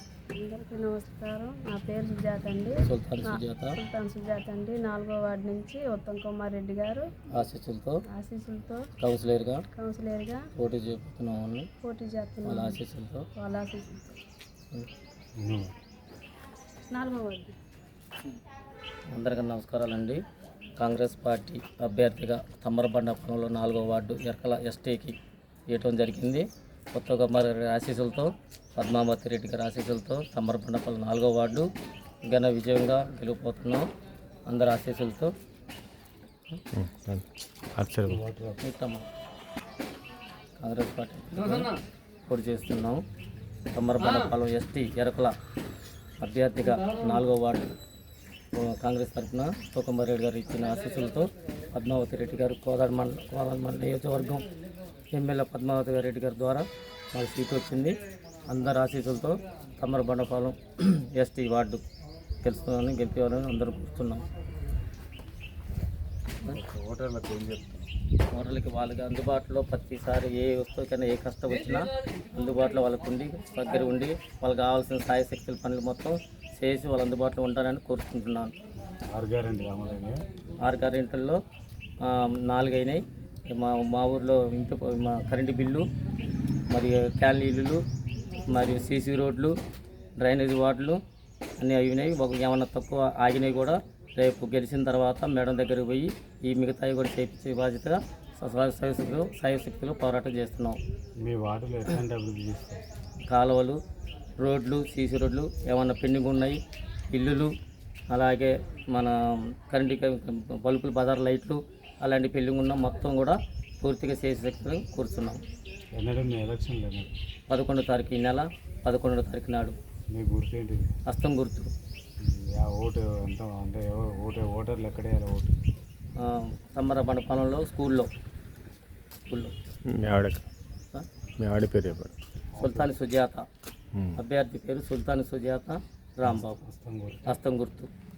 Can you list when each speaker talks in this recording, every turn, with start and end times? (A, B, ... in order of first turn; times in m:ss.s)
0:00.3-0:07.1 A
0:02.8-0:03.7 B
0:07.3-0:08.0 B
0:08.1-0:08.9 A
0:09.0-0:09.6 B
0:09.7-0:10.4 A
0:10.6-0:11.7 B
0:11.8-0:12.8 A
0:12.4-0:13.3 B
0:13.4-0:14.1 A
0:15.4-0:15.7 C
0:16.9-0:17.6 A
0:19.1-0:20.2 B
0:20.8-0:25.2 B
0:25.7-0:31.7 B
0:32.2-0:33.9 B
0:34.5-0:35.3 B
0:36.7-0:38.2 D
0:38.1-0:38.6 C
0:38.6-0:39.0 B
0:40.6-0:41.7 B
0:42.3-0:43.0 B
0:43.7-0:45.3 B
0:46.2-0:47.7 B
0:48.5-0:54.4 B
0:55.1-1:01.8 B
1:02.4-1:04.2 B
1:06.4-1:07.9 C
1:08.3-1:18.6 B
1:19.1-1:20.2 C
1:20.6-1:21.4 B
1:22.0-1:25.8 B
1:26.7-1:27.8 B
1:28.4-1:29.6 B
1:30.2-1:31.0 B
1:31.6-1:40.8 B
1:41.2-1:42.8 C
1:43.3-1:43.8 B
1:44.4-1:46.6 B
1:47.1-1:47.5 B
1:48.1-1:55.4 B
1:55.9-1:57.1 C
1:57.5-1:59.8 B
2:00.1-2:01.0 C
2:01.1-2:01.7 B
2:02.2-2:05.6 C
2:06.2-2:08.1 B
2:09.8-2:10.4 D
2:11.4-2:12.1 D
2:12.5-2:12.9 C
2:12.6-2:13.4 B
2:13.9-2:14.2 D
2:14.2-2:16.6 B
2:16.6-2:17.3 C
2:17.2-2:17.9 B